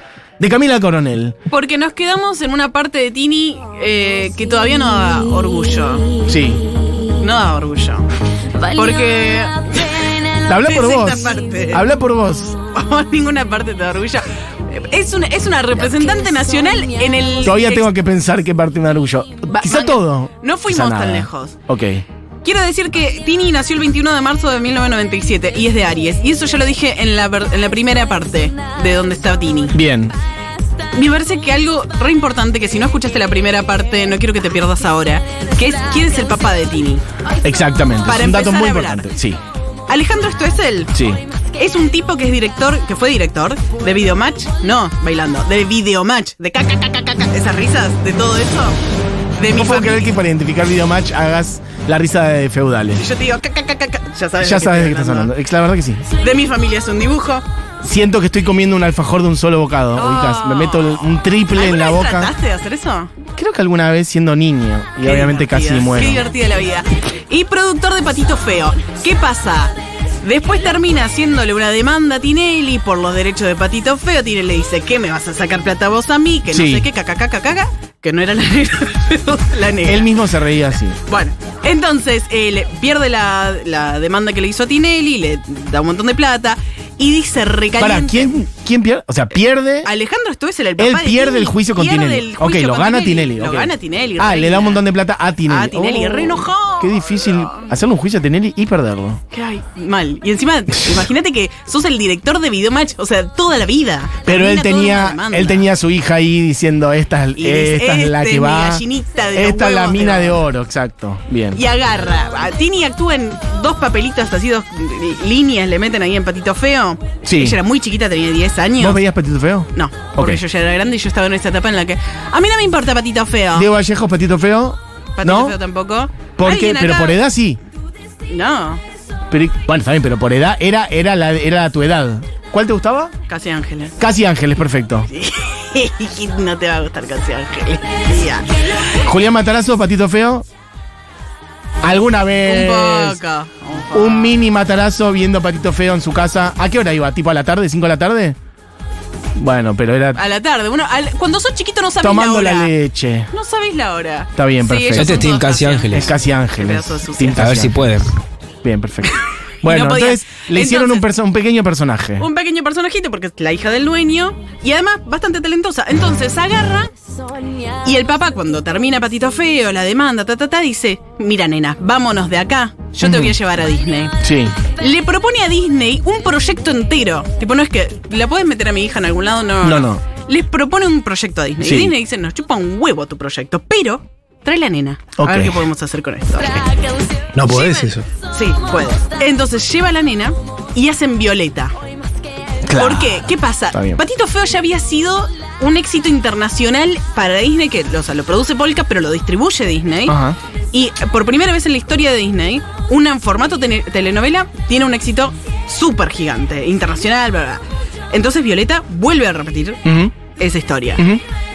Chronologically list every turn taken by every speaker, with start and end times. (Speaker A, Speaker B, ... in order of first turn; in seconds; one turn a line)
Speaker A: 0.4-1.4
Speaker B: 1.5-6.1
Speaker A: 6.3-6.6
Speaker B: 7.2-8.0
Speaker B: 8.7-11.8
Speaker A: 10.4-12.6
Speaker B: 12.7-17.8
Speaker A: 17.4-22.0
Speaker B: 19.5-21.6
Speaker B: 22.4-29.7
Speaker A: 29.7-30.1
Speaker B: 30.9-37.0
Speaker A: 37.4-39.4
Speaker B: 38.0-39.1
Speaker B: 39.9-40.9
Speaker A: 40.9-41.2
Speaker B: 41.6-48.8
Speaker B: 49.4-50.1
Speaker A: 49.5-53.0
Speaker B: 53.0-55.3
Speaker A: 54.4-56.0
Speaker B: 56.2-57.4
Speaker A: 57.8-62.3
Speaker B: 59.9-63.1
Speaker A: 63.4-66.2
Speaker B: 65.0-80.3
Speaker A: 76.5-76.8
Speaker A: 79.8-81.0
Speaker B: 81.1-88.3
Speaker A: 87.8-89.9
Speaker B: 89.8-94.8
Speaker A: 90.8-99.2
Speaker B: 95.5-97.7
Speaker B: 99.3-105.6
Speaker A: 104.2-111.6
Speaker B: 107.4-110.4
Speaker B: 111.5-119.0
Speaker A: 117.2-117.6
Speaker A: 118.8-120.4
Speaker B: 119.7-123.7
Speaker A: 123.5-125.5
Speaker B: 125.2-127.2
Speaker A: 126.4-127.6
Speaker B: 128.3-128.8
Speaker A: 129.3-133.1
Speaker B: 133.3-133.9
Speaker A: 134.0-135.1
Speaker B: 135.1-138.9
Speaker A: 139.0-140.4
Speaker A: 141.8-143.2
Speaker B: 142.4-144.3
Speaker A: 143.9-148.3
Speaker A: 149.3-150.2
Speaker B: 150.1-152.7
Speaker A: 152.0-153.3
Speaker B: 153.3-157.5
Speaker A: 154.3-155.2
Speaker C: 154.9-156.1
Speaker A: 155.9-157.8
Speaker C: 157.3-158.1
Speaker A: 158.6-162.2
Speaker B: 159.1-161.1
Speaker B: 162.2-166.9
Speaker B: 167.8-186.8
Speaker A: 173.0-173.3
Speaker A: 174.2-174.6
Speaker A: 179.6-180.0
Speaker A: 181.6-181.9
Speaker A: 185.2-185.6
Speaker A: 187.3-188.0
Speaker B: 187.5-191.7
Speaker A: 192.7-194.0
Speaker B: 192.8-200.2
Speaker A: 200.1-200.4
Speaker B: 200.7-209.8
Speaker A: 209.8-210.1
Speaker B: 210.4-211.0
Speaker A: 211.0-211.2